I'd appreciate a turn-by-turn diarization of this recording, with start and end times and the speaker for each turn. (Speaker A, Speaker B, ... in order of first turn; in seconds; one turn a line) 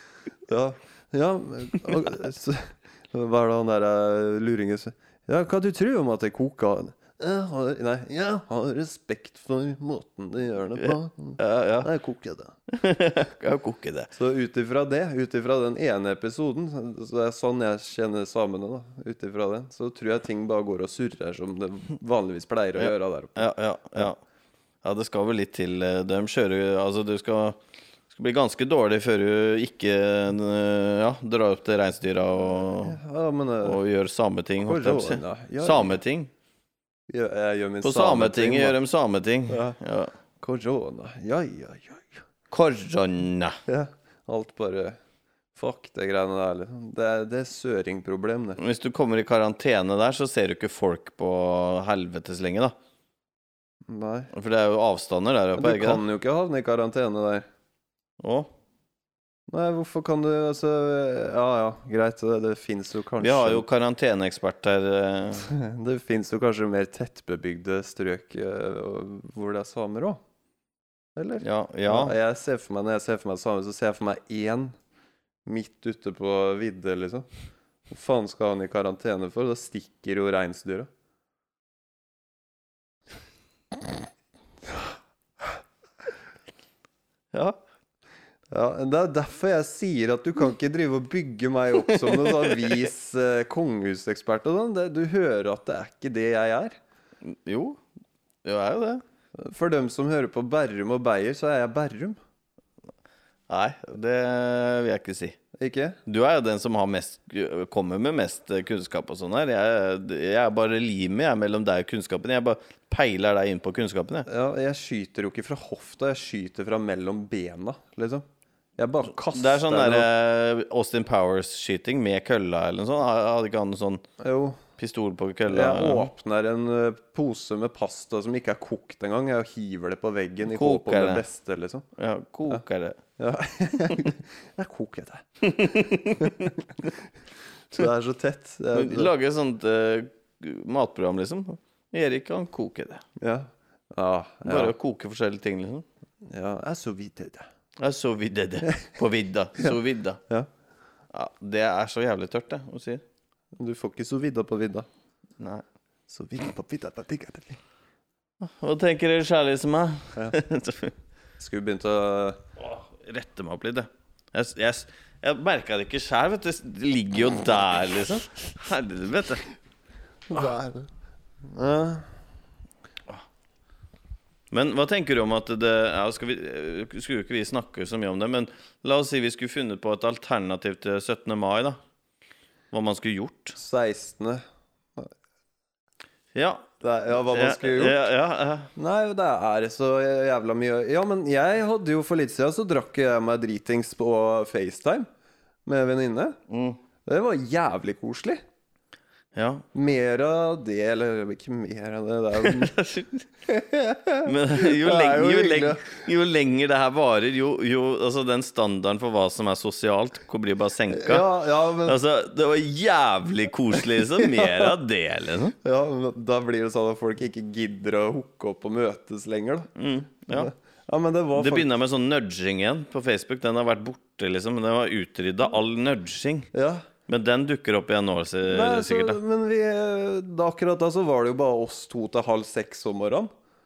Speaker A: 0.5-12.5
Speaker B: 10.8-11.9
Speaker B: 12.7-14.1
Speaker A: 14.1-24.1
Speaker B: 22.8-24.2
Speaker B: 24.8-27.6
Speaker B: 28.1-33.0
Speaker A: 32.7-33.8
Speaker B: 33.6-36.3
Speaker A: 34.6-36.0
Speaker A: 37.1-38.8
Speaker B: 37.8-40.1
Speaker A: 39.5-39.8
Speaker A: 40.4-42.2
Speaker B: 42.5-43.6
Speaker A: 43.7-45.0
Speaker A: 45.5-48.6
Speaker B: 48.6-52.7
Speaker A: 53.9-54.3
Speaker B: 54.3-56.0
Speaker A: 55.5-57.4
Speaker B: 58.2-58.5
Speaker A: 59.5-63.6
Speaker B: 63.2-65.5
Speaker A: 65.4-70.2
Speaker A: 71.2-74.7
Speaker B: 71.4-72.1
Speaker A: 75.4-77.3
Speaker A: 77.9-80.9
Speaker B: 87.3-87.6
Speaker A: 88.5-96.8
Speaker B: 92.0-92.7
Speaker B: 97.2-97.8
Speaker B: 98.4-99.0
Speaker A: 99.4-102.2
Speaker B: 103.5-105.4
Speaker A: 105.6-106.0
Speaker B: 106.0-114.3
Speaker A: 114.2-118.2
Speaker A: 118.8-120.1
Speaker B: 119.1-124.0
Speaker A: 124.2-124.6
Speaker B: 124.8-126.1
Speaker A: 125.5-131.8
Speaker B: 130.4-131.2
Speaker B: 132.0-133.0
Speaker A: 133.2-137.0
Speaker B: 135.4-136.6
Speaker A: 137.7-139.1
Speaker B: 138.7-143.0
Speaker A: 143.2-144.7
Speaker B: 144.4-145.8
Speaker A: 146.2-147.5
Speaker B: 147.8-150.2
Speaker B: 151.1-153.0
Speaker A: 153.6-154.9
Speaker A: 156.1-157.6
Speaker B: 158.4-160.9
Speaker A: 161.4-162.4
Speaker B: 162.6-169.4
Speaker A: 170.3-170.9
Speaker A: 171.4-172.1
Speaker B: 174.5-181.8
Speaker B: 182.7-183.6
Speaker A: 183.6-184.4
Speaker B: 186.3-188.7
Speaker A: 186.8-188.1
Speaker A: 188.7-195.1
Speaker A: 195.7-196.4
Speaker B: 196.5-196.8
Speaker A: 197.0-198.4
Speaker B: 199.3-199.7
Speaker A: 199.7-202.8
Speaker B: 202.4-203.3
Speaker A: 203.4-206.0
Speaker B: 204.2-211.3
Speaker A: 210.9-212.0
Speaker B: 211.8-215.6
Speaker A: 213.8-214.7
Speaker A: 215.6-219.7
Speaker B: 219.8-220.5
Speaker A: 220.3-221.7
Speaker B: 221.3-226.5
Speaker A: 226.5-226.8
Speaker B: 227.1-229.2
Speaker A: 228.5-233.3